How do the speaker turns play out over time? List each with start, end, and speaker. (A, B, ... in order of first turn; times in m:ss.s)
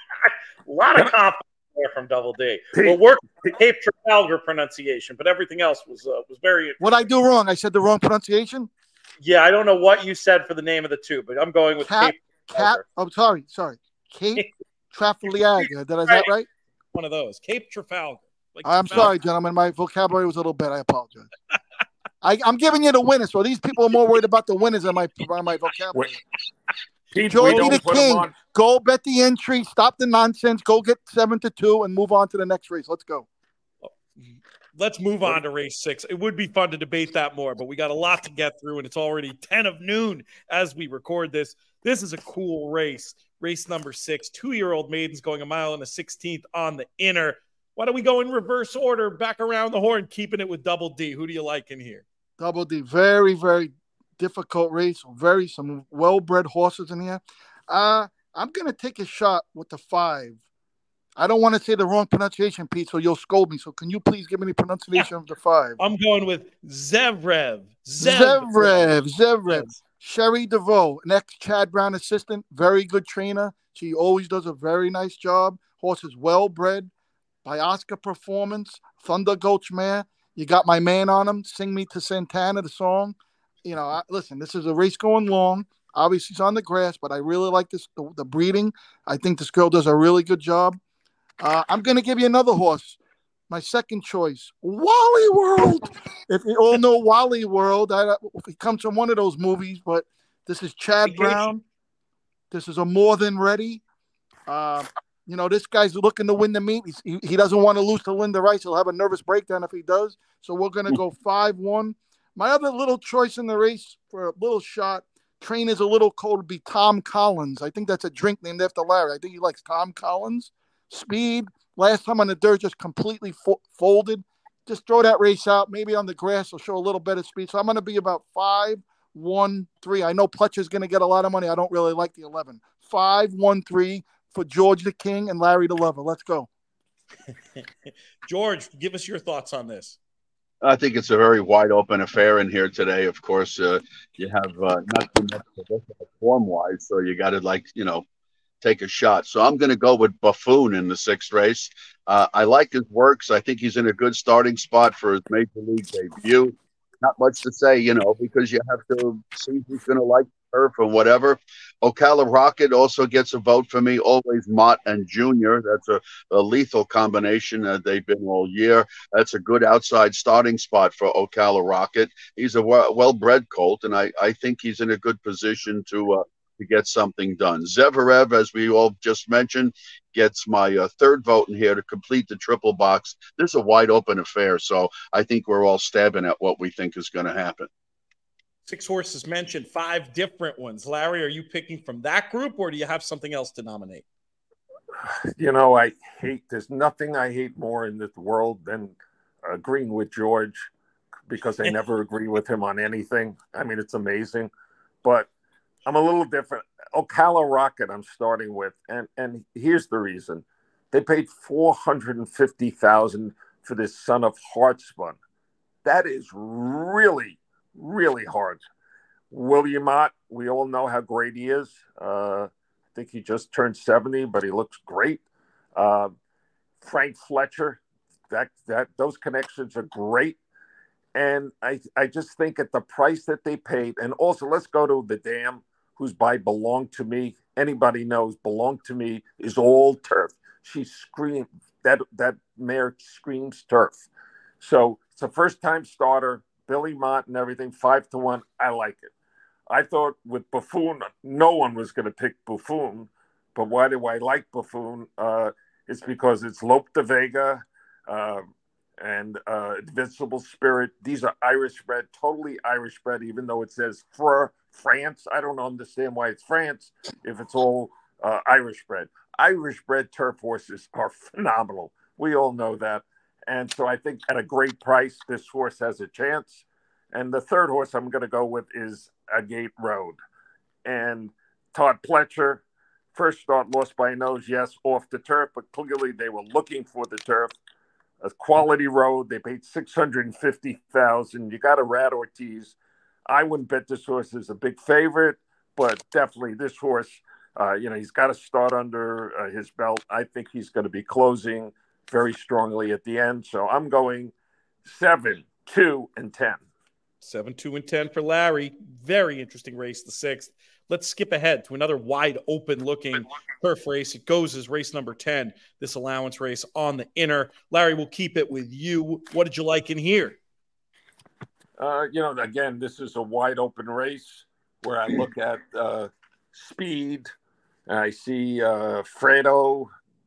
0:00.6-0:06.9 A
0:02.7-0:03.0 B
0:06.8-0:08.7 C
0:09.2-0:12.8 A
0:11.8-0:16.5 C
0:15.6-0:16.3 A
0:16.9-0:19.1 A
0:18.6-0:21.3 C
0:22.2-0:26.1 C
0:27.1-0:28.3 B
0:27.3-0:33.2 C
0:34.8-0:52.0 A
0:52.4-1:00.4 C
1:01.2-1:05.8 C
1:05.8-1:08.9 A
1:08.0-1:16.9 C
1:09.5-1:09.7 A
1:17.4-1:30.8 C
1:31.4-1:33.0 C
1:33.5-1:41.6 C
1:41.1-1:41.5 A
1:42.5-1:43.8 C
1:44.5-2:16.5 C
2:18.3-2:20.0 A
2:20.6-2:28.0 D
2:28.6-3:07.7 D
3:08.6-3:14.0 A
3:15.4-3:20.7 B
3:21.3-3:24.5 B
3:25.0-3:25.3 B
3:25.8-3:35.2 B
3:35.8-3:38.6 B
3:39.3-3:45.2 B
3:45.7-3:46.1 B
3:46.8-3:50.4 B
3:51.1-4:04.0 B
4:04.6-4:09.1 B
4:09.7-4:18.4 B
4:19.0-4:40.2 B
4:40.8-4:42.6 B
4:43.1-4:47.5 B
4:48.2-4:52.7 B
4:53.3-5:04.3 B
5:04.8-5:06.6 B
5:07.2-5:20.4 A
5:21.8-5:27.3 B
5:27.9-5:29.9 B